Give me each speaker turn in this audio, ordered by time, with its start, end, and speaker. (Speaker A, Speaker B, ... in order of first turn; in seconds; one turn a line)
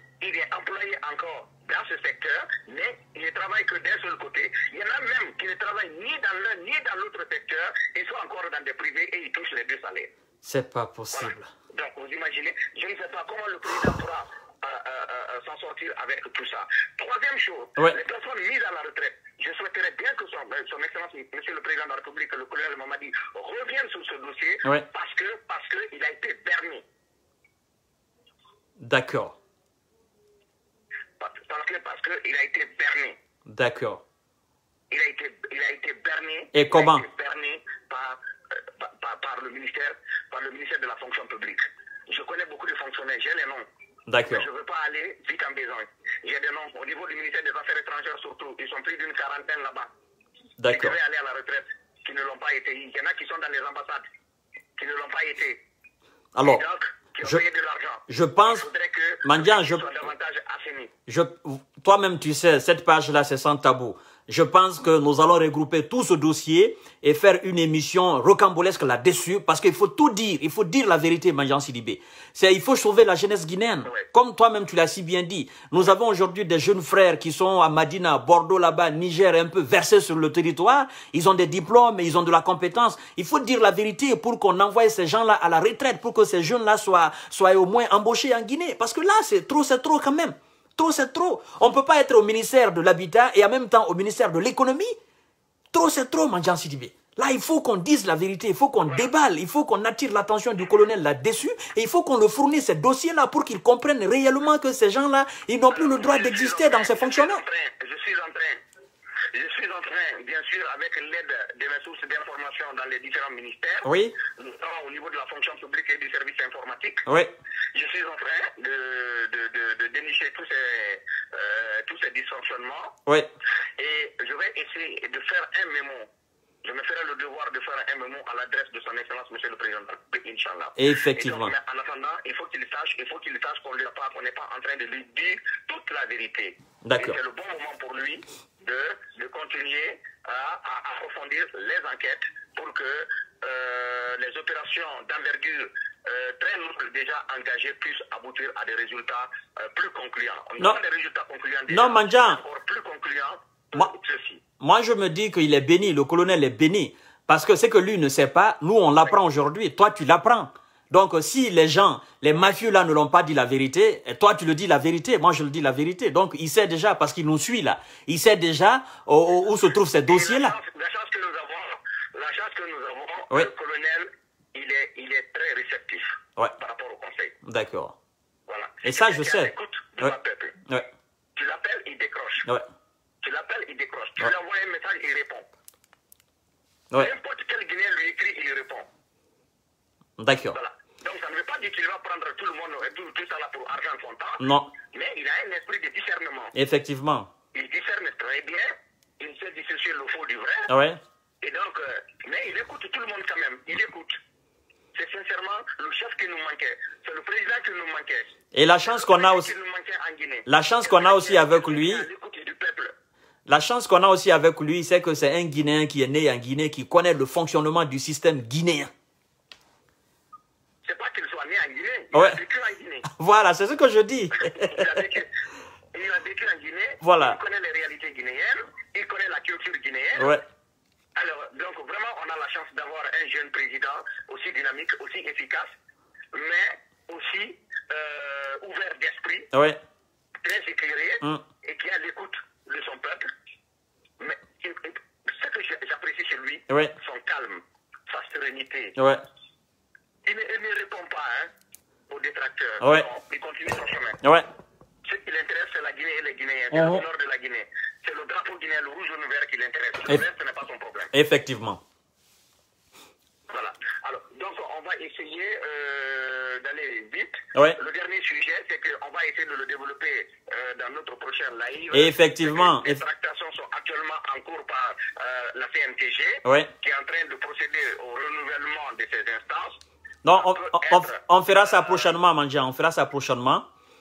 Speaker A: 0.2-10.1
Speaker B: 10.4-11.5
Speaker A: 11.1-26.8
Speaker B: 28.8-29.4
Speaker A: 31.2-33.2
Speaker B: 33.5-34.0
Speaker A: 34.9-43.7
Speaker B: 36.5-37.0
Speaker B: 44.1-44.5
Speaker A: 44.2-49.9
Speaker B: 50.6-51.0
Speaker A: 50.7-54.0
Speaker A: 54.8-55.6
Speaker B: 56.3-56.6
Speaker A: 56.4-60.9
Speaker B: 58.1-58.7
Speaker B: 59.2-59.9
Speaker B: 61.1-95.0
Speaker B: 95.7-107.4
Speaker A: 105.7-108.6
Speaker A: 109.3-117.0
Speaker B: 113.8-114.2
Speaker B: 117.0-117.3
Speaker A: 117.7-123.0
Speaker A: 123.8-126.1
Speaker A: 126.6-154.4
Speaker B: 130.8-131.5
Speaker B: 136.8-137.2
Speaker B: 151.7-152.4
Speaker B: 154.6-170.5
Speaker A: 170.1-177.3
Speaker B: 177.4-177.9
Speaker A: 178.5-180.6
Speaker B: 178.8-180.1
Speaker A: 181.3-182.5
Speaker A: 183.2-185.5
Speaker A: 186.9-188.9
Speaker B: 190.2-190.6
Speaker A: 190.5-196.5
Speaker B: 194.4-194.7
Speaker B: 196.5-197.3
Speaker A: 197.5-200.7
Speaker B: 200.7-201.0
Speaker A: 201.4-204.2
Speaker A: 204.9-208.3
Speaker B: 208.5-209.5
Speaker A: 208.9-212.9
Speaker B: 210.5-212.1
Speaker B: 213.5-218.9
Speaker A: 220.8-223.1
Speaker B: 222.1-222.4
Speaker B: 223.1-224.9
Speaker A: 224.4-225.3
Speaker A: 225.9-230.4
Speaker B: 227.0-227.4
Speaker B: 230.2-230.4
Speaker A: 231.1-235.7
Speaker A: 236.3-239.5
Speaker B: 239.5-239.8
Speaker A: 240.4-243.3
Speaker A: 244.2-248.9
Speaker B: 246.7-246.9
Speaker B: 248.9-249.2
Speaker A: 250.2-251.5
Speaker A: 252.1-254.2
Speaker B: 252.8-253.1
Speaker B: 254.2-254.5
Speaker A: 255.0-261.1
Speaker B: 256.7-257.0
Speaker B: 261.1-261.8
Speaker A: 263.5-279.8
Speaker B: 271.9-273.0
Speaker B: 276.4-276.7
Speaker B: 280.2-283.7
Speaker A: 280.3-281.2